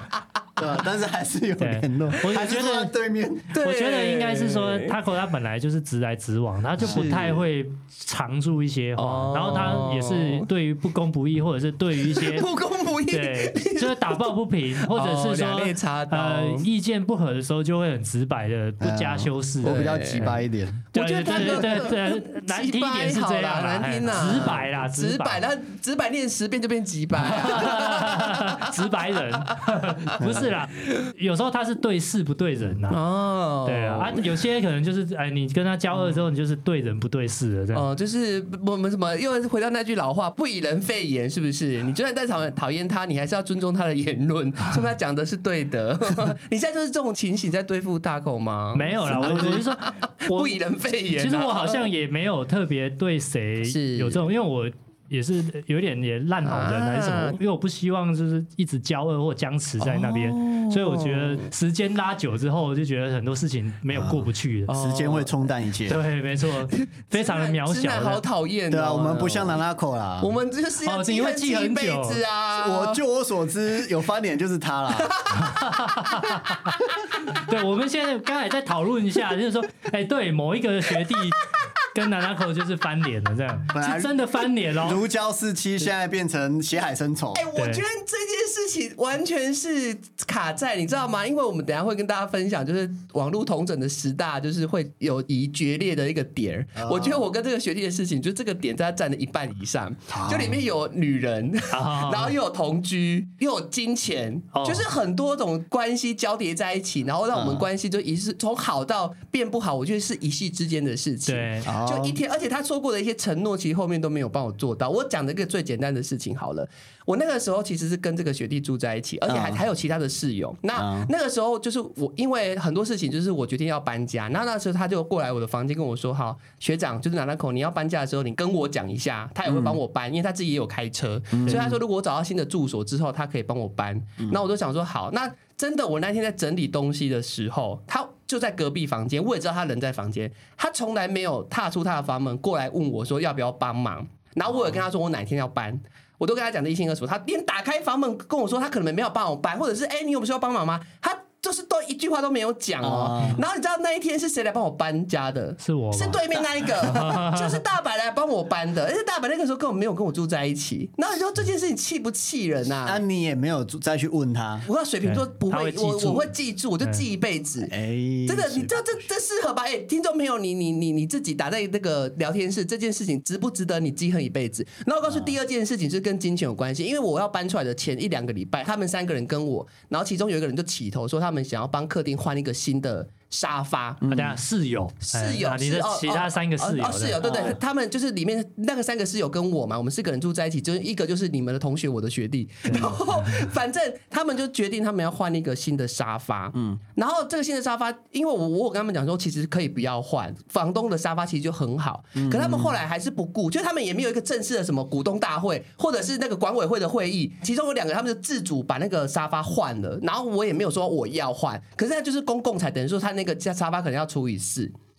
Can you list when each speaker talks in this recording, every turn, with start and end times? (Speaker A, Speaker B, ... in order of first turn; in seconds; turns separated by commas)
Speaker A: 0.6-3.5, Speaker B: 1.6-2.9, Speaker C: 3.5-5.0, Speaker B: 3.6-12.5, Speaker A: 6.8-7.4, Speaker C: 6.9-7.2, Speaker C: 9.0-10.5, Speaker C: 12.0-16.7, Speaker B: 13.1-20.3, Speaker A: 18.8-21.7, Speaker C: 19.6-20.4, Speaker C: 20.9-28.8, Speaker B: 20.9-25.4, Speaker B: 27.2-33.0, Speaker C: 29.4-30.2, Speaker A: 30.2-30.5, Speaker C: 32.9-34.3, Speaker B: 33.6-37.9, Speaker C: 37.7-51.9, Speaker B: 48.7-50.6, Speaker A: 49.2-49.6, Speaker B: 51.2-64.7, Speaker C: 53.6-54.3, Speaker C: 56.4-57.4, Speaker C: 59.8-61.5, Speaker A: 63.9-66.0, Speaker C: 64.7-65.3, Speaker B: 65.9-68.2, Speaker C: 66.7-69.6, Speaker A: 68.7-70.3, Speaker C: 70.2-73.0, Speaker B: 70.8-72.2, Speaker A: 72.5-75.4, Speaker C: 75.0-75.6, Speaker B: 75.4-85.0, Speaker C: 76.2-76.6, Speaker A: 83.7-87.5, Speaker C: 87.3-163.0, Speaker B: 87.6-87.8, Speaker A: 96.8-97.2, Speaker A: 100.1-100.6, Speaker B: 101.7-102.3, Speaker B: 104.5-104.9, Speaker A: 107.3-107.7, Speaker B: 111.3-111.7, Speaker A: 111.7-112.2, Speaker A: 119.3-119.6, Speaker A: 120.8-121.1, Speaker A: 129.5-129.8, Speaker A: 131.3-131.8, Speaker A: 152.8-153.4, Speaker B: 155.6-156.3, Speaker B: 156.8-157.6, Speaker A: 162.8-164.7, Speaker C: 164.7-167.7, Speaker B: 165.1-166.3, Speaker A: 167.6-168.7, Speaker C: 168.3-184.0, Speaker A: 175.1-175.3, Speaker A: 184.0-184.4, Speaker B: 184.1-187.5, Speaker C: 185.0-214.7, Speaker A: 187.2-187.6, Speaker B: 192.7-193.0, Speaker A: 196.5-196.8, Speaker A: 202.2-202.8